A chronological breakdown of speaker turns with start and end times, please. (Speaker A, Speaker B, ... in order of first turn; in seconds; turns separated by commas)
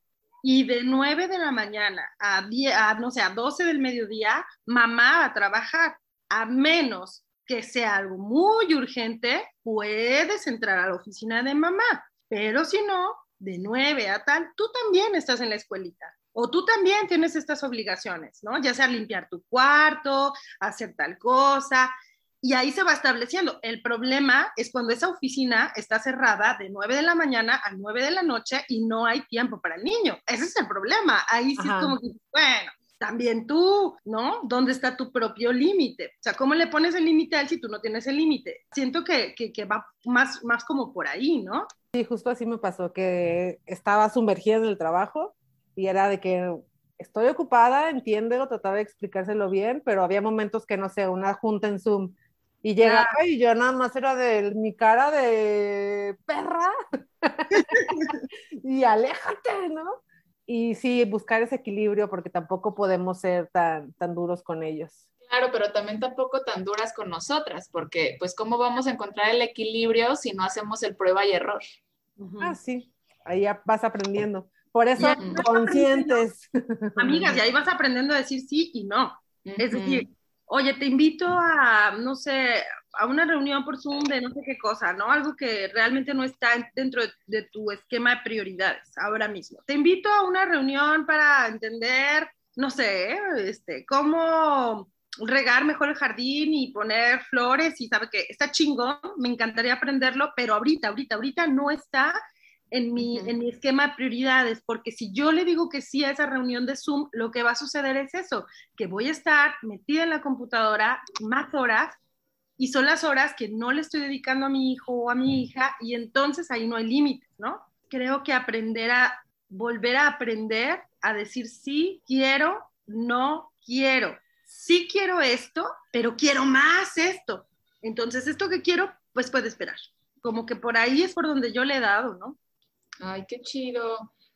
Speaker A: 0.4-41.7, Speaker B: 31.6-31.9, Speaker B: 41.9-65.0, Speaker A: 52.8-53.2, Speaker A: 57.5-58.1, Speaker C: 65.2-71.6, Speaker A: 72.2-72.5, Speaker B: 72.4-77.4, Speaker A: 75.0-76.2, Speaker C: 75.2-75.4, Speaker A: 77.0-102.2, Speaker C: 79.4-80.0, Speaker A: 102.7-112.0, Speaker C: 103.0-103.3, Speaker A: 112.6-132.4, Speaker C: 133.0-134.1